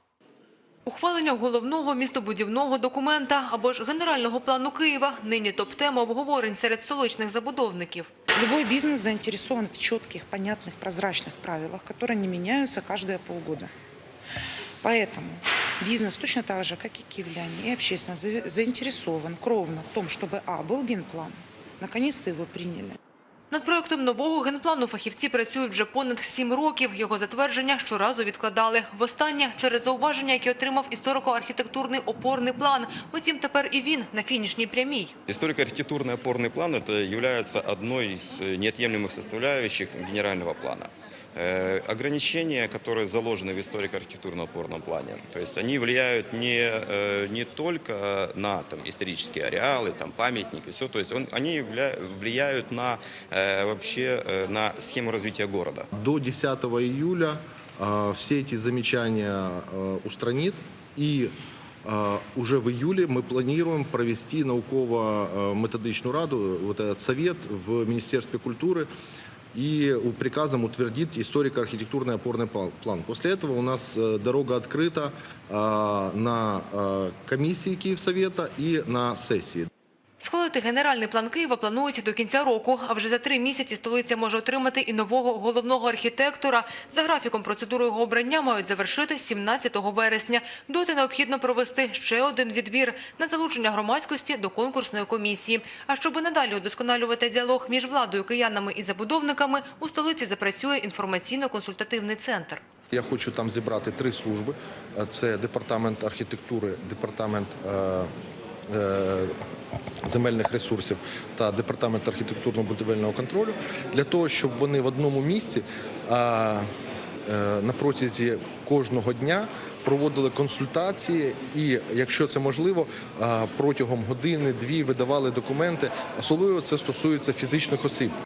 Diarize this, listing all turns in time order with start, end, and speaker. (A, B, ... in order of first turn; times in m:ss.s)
0:00.9-0:08.1 A
0:08.4-0:13.7 B
0:14.8-0:23.0 B
0:23.5-0:35.2 A
0:35.3-0:55.9 C
0:56.0-1:01.3 D
1:01.8-1:08.9 D
1:09.5-1:19.7 D
1:20.2-1:42.6 A
1:42.9-1:48.1 D
1:48.7-1:49.4 D
1:50.0-1:56.7 D
1:57.3-2:08.1 D